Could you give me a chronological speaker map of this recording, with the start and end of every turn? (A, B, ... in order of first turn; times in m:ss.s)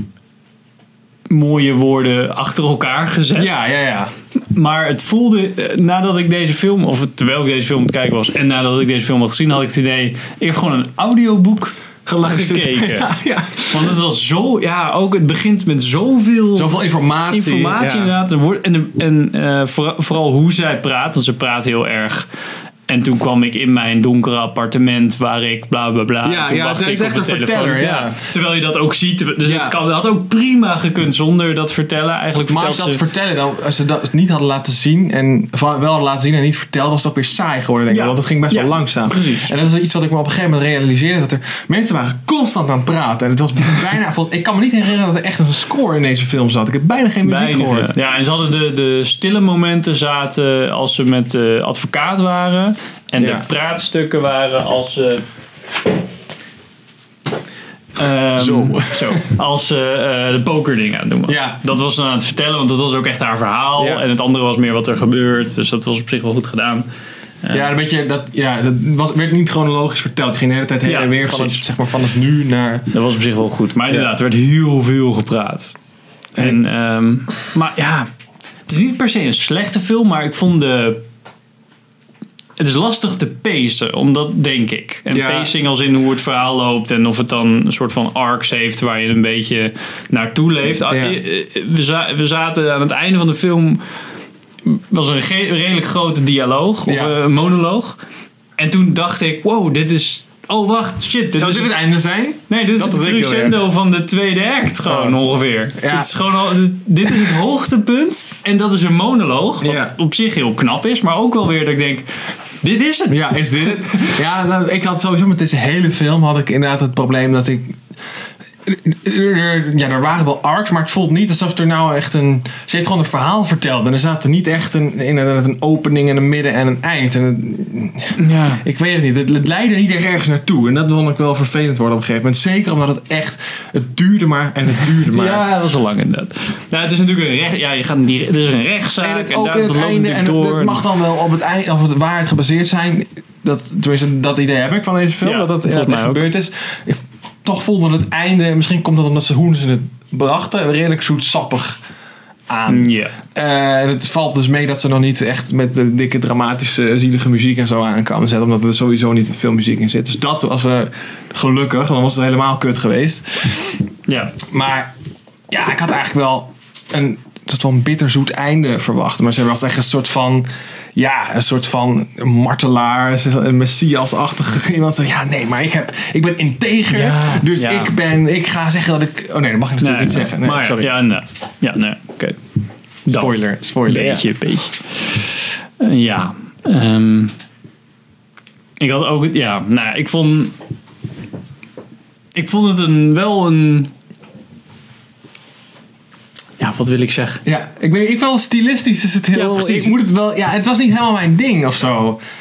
0:01.3-0:03.6 A
0:03.3-0:04.1 B
0:04.5-0:13.1 A
0:12.0-0:13.9 B
0:13.7-0:16.8 A
0:16.5-0:18.1 B
0:17.3-0:22.3 A
0:22.9-0:33.0 A
0:26.2-0:28.2 B
0:29.4-0:29.8 B
0:32.5-0:47.9 B
0:37.9-0:39.5 A
0:47.2-0:55.2 A
0:53.2-0:53.4 B
0:58.0-1:06.9 A
0:58.4-0:59.2 B
1:01.3-1:01.6 B
1:03.8-1:04.0 B
1:07.4-1:07.7 A
1:07.5-1:12.9 B
1:10.8-1:11.6 A
1:12.9-1:15.8 A
1:16.4-1:18.1 A
1:18.7-1:21.0 A
1:22.6-1:33.8 A
1:25.1-1:25.5 B
1:30.9-1:31.2 B
1:34.6-1:38.0 A
1:36.8-1:37.2 B
1:38.6-1:41.7 A
1:41.4-1:43.6 B
1:42.5-1:52.1 A
1:44.8-1:45.2 B
1:45.7-1:46.1 B
1:49.6-1:50.0 B
1:52.6-1:54.1 A
1:53.1-1:57.8 B
1:58.6-2:15.4 B
2:08.2-2:08.6 A
2:15.1-2:20.8 A
2:19.0-2:31.8 B
2:25.2-2:26.3 A
2:32.5-2:43.8 B
2:32.7-2:33.2 A
2:44.1-2:44.4 A
2:44.5-2:44.9 B
2:45.5-3:00.9 B
2:56.9-2:57.9 A
2:59.8-3:02.4 A
3:03.0-3:07.3 A
3:03.1-3:04.2 B
3:08.8-3:10.5 A
3:12.3-3:13.9 A
3:16.6-3:17.4 A
3:17.4-3:22.2 B
3:19.3-3:19.9 A